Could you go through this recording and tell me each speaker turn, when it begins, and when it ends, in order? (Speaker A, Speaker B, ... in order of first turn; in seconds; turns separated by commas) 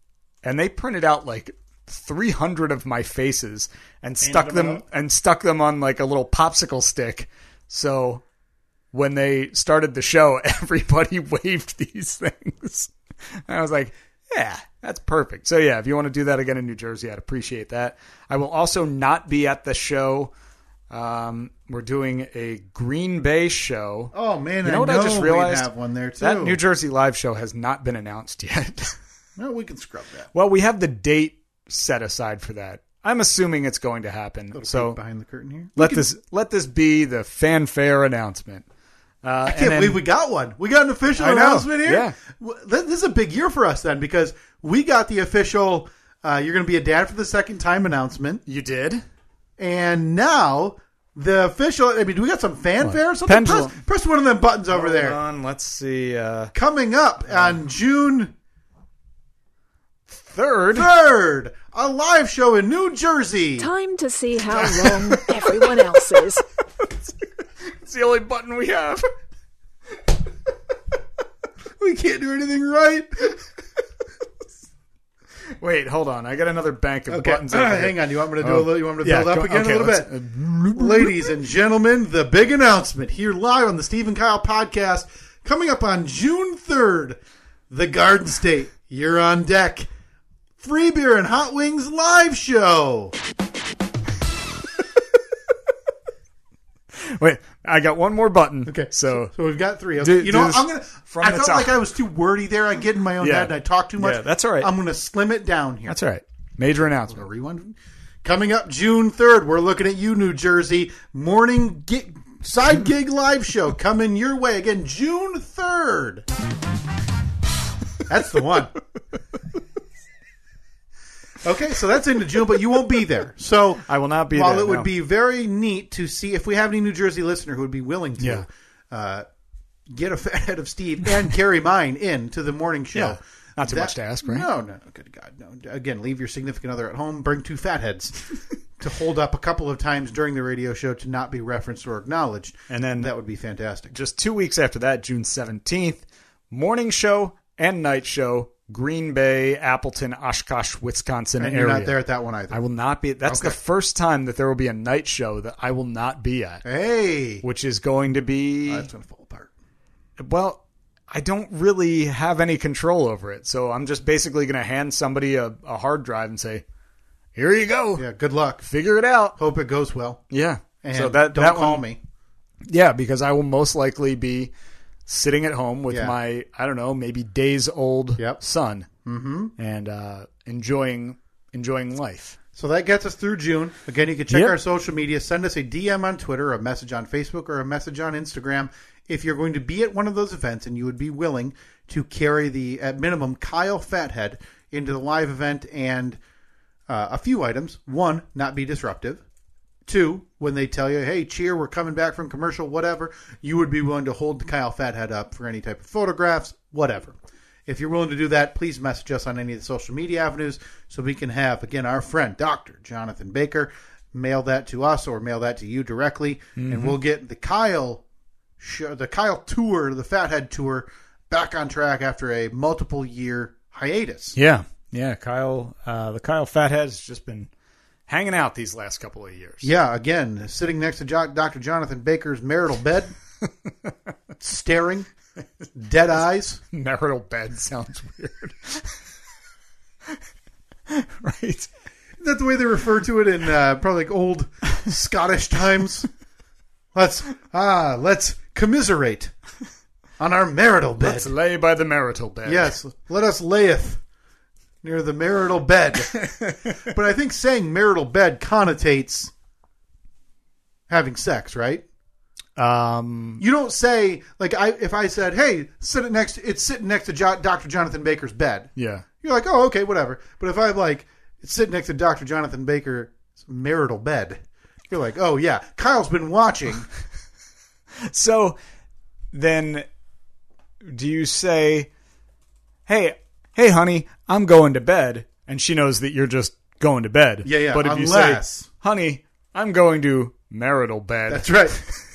Speaker A: 0.4-8.2, Speaker B: 4.2-4.8, Speaker A: 8.9-20.3, Speaker A: 20.9-24.1, Speaker B: 24.1-26.6, Speaker A: 24.6-25.7, Speaker A: 26.2-28.9, Speaker B: 29.4-30.3, Speaker A: 30.3-35.0, Speaker B: 34.5-36.1, Speaker A: 35.8-38.6, Speaker A: 39.2-40.0, Speaker B: 39.5-48.4, Speaker A: 41.1-42.1, Speaker A: 48.5-49.0, Speaker B: 49.6-55.2, Speaker A: 52.8-53.8, Speaker A: 54.7-56.5, Speaker B: 56.5-58.3, Speaker A: 57.3-57.6, Speaker A: 60.1-60.9, Speaker B: 60.7-63.7, Speaker C: 63.6-66.4, Speaker A: 64.5-66.3, Speaker A: 67.6-69.0, Speaker B: 71.8-73.4, Speaker A: 75.6-81.3, Speaker B: 77.1-80.1, Speaker B: 80.7-87.2, Speaker B: 87.7-89.9, Speaker B: 90.6-93.1, Speaker A: 96.9-99.3, Speaker B: 98.7-106.0, Speaker A: 100.0-101.8, Speaker A: 103.2-104.7, Speaker A: 105.9-107.2, Speaker B: 107.1-116.2, Speaker B: 118.1-118.7, Speaker B: 121.4-129.2, Speaker A: 123.8-124.9, Speaker A: 128.2-128.4, Speaker B: 129.9-138.2, Speaker A: 132.9-134.5, Speaker B: 138.8-143.9, Speaker A: 142.7-143.1, Speaker A: 143.9-151.9, Speaker B: 151.4-152.6, Speaker A: 152.5-156.6, Speaker B: 153.2-153.6, Speaker B: 156.6-157.4, Speaker A: 157.4-158.9, Speaker B: 158.7-159.5, Speaker A: 160.2-166.6, Speaker A: 167.3-168.1, Speaker B: 168.0-168.7, Speaker A: 168.6-169.4, Speaker B: 169.4-170.2, Speaker A: 170.3-171.8, Speaker B: 170.8-172.0, Speaker A: 172.7-174.5, Speaker A: 175.1-178.9, Speaker B: 175.9-176.1, Speaker B: 179.0-179.5, Speaker A: 179.6-182.4, Speaker B: 182.5-196.2, Speaker A: 184.3-184.5, Speaker B: 196.9-199.2, Speaker B: 199.8-218.0, Speaker A: 216.6-217.0, Speaker B: 218.6-224.4, Speaker A: 224.3-227.5, Speaker A: 228.1-229.7, Speaker B: 229.6-233.1, Speaker A: 233.7-233.9, Speaker B: 234.4-235.1, Speaker B: 235.7-236.6, Speaker A: 236.7-239.0, Speaker A: 240.9-241.7, Speaker B: 242.2-246.1, Speaker B: 246.9-249.3, Speaker B: 250.2-251.3, Speaker A: 251.0-252.7, Speaker B: 252.4-254.0, Speaker B: 254.8-256.2, Speaker A: 256.1-256.9, Speaker B: 256.8-259.3, Speaker B: 260.9-261.8, Speaker A: 262.6-263.4, Speaker B: 263.4-276.9, Speaker A: 268.8-269.0, Speaker A: 278.0-278.6, Speaker A: 279.3-279.9, Speaker A: 280.8-281.9, Speaker A: 282.9-292.0, Speaker B: 287.4-288.7, Speaker B: 291.3-291.8